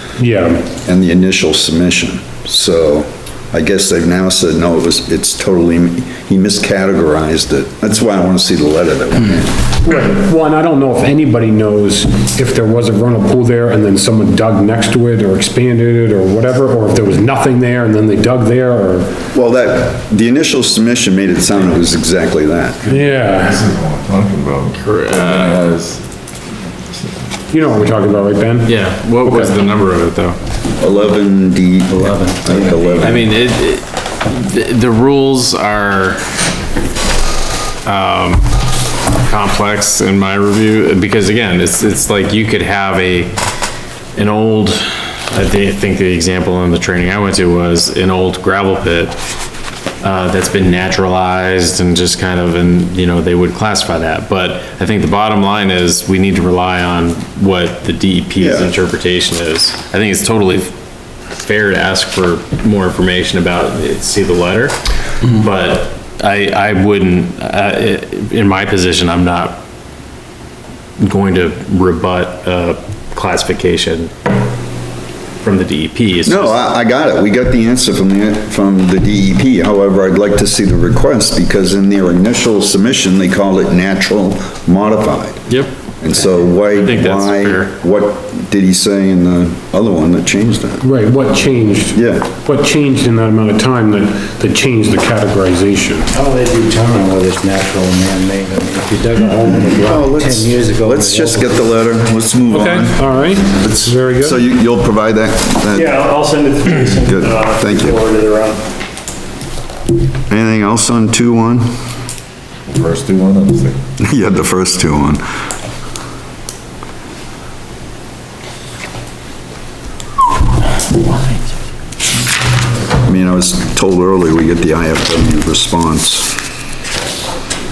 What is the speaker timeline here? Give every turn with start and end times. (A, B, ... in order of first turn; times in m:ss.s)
0:00.2-0:00.7 A
0:00.8-0:09.6 B
0:09.8-0:19.2 A
0:19.3-0:22.8 B
0:22.8-0:26.0 C
0:22.9-0:23.6 A
0:24.8-0:25.6 D
0:26.9-0:27.3 C
0:27.5-0:29.6 A
0:28.7-0:30.4 D
0:30.8-0:33.3 B
0:32.0-0:32.4 E
0:32.5-0:33.3 C
0:33.0-0:36.2 D
0:37.8-0:38.4 D
0:39.2-0:43.3 D
0:44.2-0:49.2 D
0:50.0-1:00.7 D
0:58.4-0:58.7 B
1:01.3-1:04.8 D
1:05.3-1:09.6 D
1:11.0-1:14.1 D
1:15.4-1:16.6 D
1:16.2-1:25.5 B
1:26.0-1:30.8 B
1:26.8-1:27.7 D
1:30.8-1:36.1 A
1:31.9-1:32.3 B
1:36.1-1:41.8 E
1:39.2-1:45.9 B
1:42.5-1:44.4 A
1:45.7-1:48.7 F
1:47.1-1:48.0 B
1:50.3-1:51.7 B
1:52.7-1:53.8 C
1:54.0-1:55.2 B
2:03.0-2:06.3 B